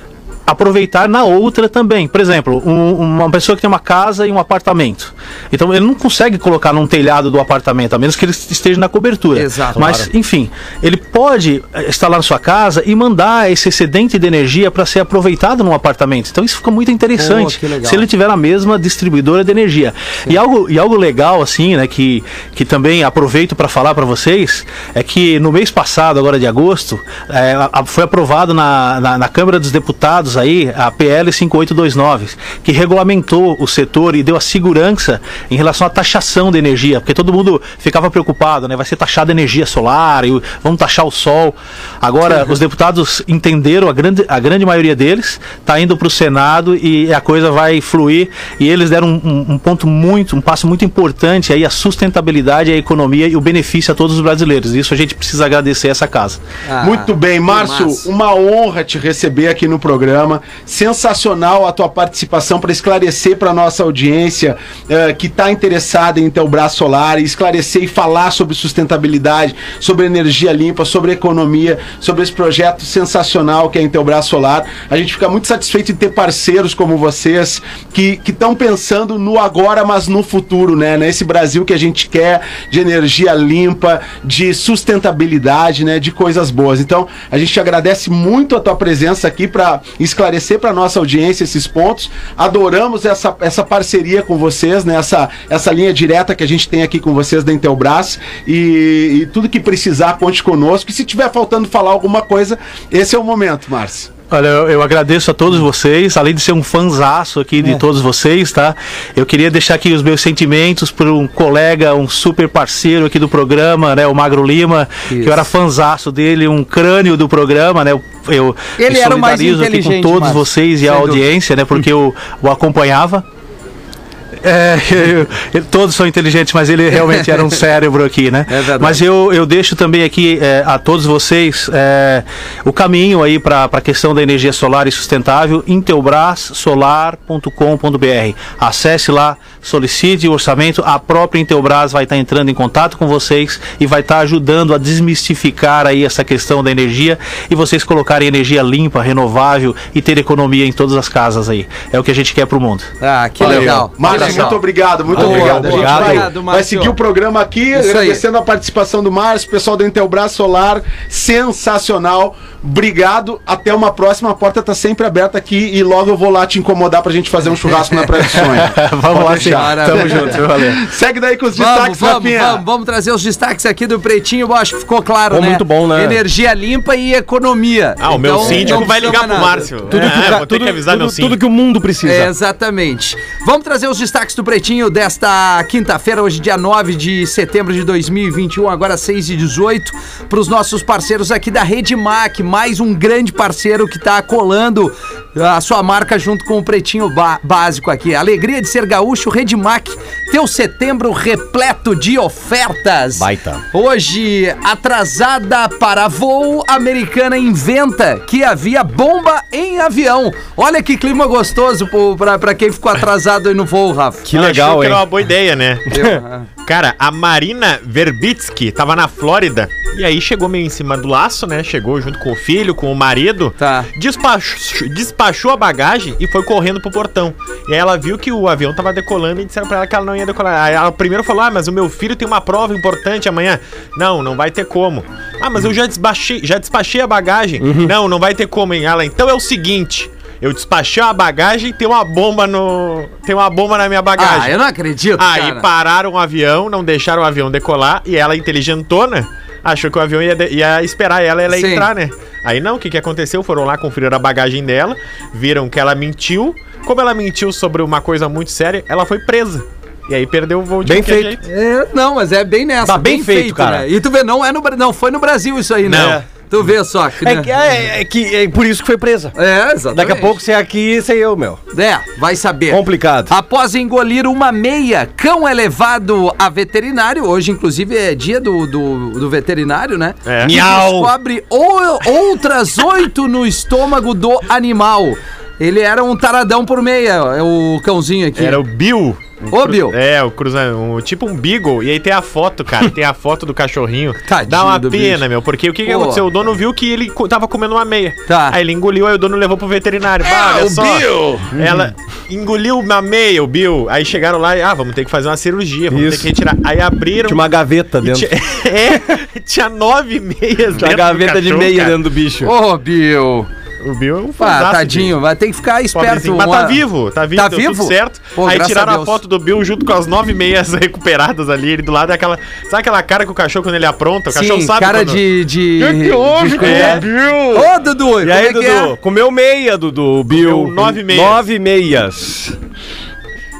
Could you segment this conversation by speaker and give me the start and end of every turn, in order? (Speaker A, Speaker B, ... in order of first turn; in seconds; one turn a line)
Speaker A: 0.5-56.4
Speaker B: 9.3-10.0
Speaker C: 9.7-10.1
Speaker B: 17.2-18.1
Speaker B: 56.6-58.1
Speaker D: 56.8-104.1
Speaker A: 104.3-123.2
Speaker B: 115.1-115.5
Speaker B: 118.8-121.2
Speaker A: 124.4-152.9
Speaker B: 127.0-127.5
Speaker B: 128.5-129.0
Speaker B: 153.0-157.0
Speaker D: 153.4-172.6
Speaker C: 153.4-154.5
Speaker C: 155.1-156.3
Speaker B: 157.7-158.2
Speaker B: 167.7-168.1
Speaker A: 168.2-170.8
Speaker B: 169.4-170.4
Speaker B: 171.5-180.0
Speaker C: 175.3-176.2
Speaker E: 178.0-181.4
Speaker C: 178.4-178.9
Speaker C: 179.9-182.3
Speaker B: 182.0-214.2
Speaker C: 203.2-203.6
Speaker C: 214.2-215.0
Speaker E: 214.3-216.0
Speaker B: 215.9-216.5
Speaker E: 216.6-244.6
Speaker B: 223.6-223.9
Speaker C: 237.6-237.9
Speaker B: 244.2-245.7
Speaker E: 245.2-261.4
Speaker B: 251.5-251.9
Speaker C: 260.8-261.3
Speaker B: 261.4-267.5
Speaker C: 262.8-263.9
Speaker E: 265.9-266.2
Speaker C: 265.9-266.2
Speaker C: 267.2-269.3
Speaker B: 269.3-270.4
Speaker C: 269.9-271.6
Speaker B: 271.7-288.6
Speaker C: 272.7-273.3
Speaker E: 280.2-280.6
Speaker C: 280.4-281.1
Speaker E: 288.4-307.5
Speaker B: 289.5-289.9
Speaker B: 294.3-295.2
Speaker B: 295.8-296.2
Speaker B: 298.3-298.6
Speaker D: 300.2-301.5
Speaker C: 301.6-301.8
Speaker C: 305.9-306.3
Speaker C: 307.2-308.6
Speaker E: 308.0-312.0
Speaker C: 310.8-312.5
Speaker B: 312.4-313.5
Speaker E: 313.8-315.1
Speaker B: 314.4-316.8
Speaker E: 315.9-325.2
Speaker B: 317.3-319.2
Speaker B: 324.3-328.9
Speaker D: 325.8-327.7
Speaker E: 326.6-327.0
Speaker C: 328.2-332.6
Speaker E: 330.3-331.4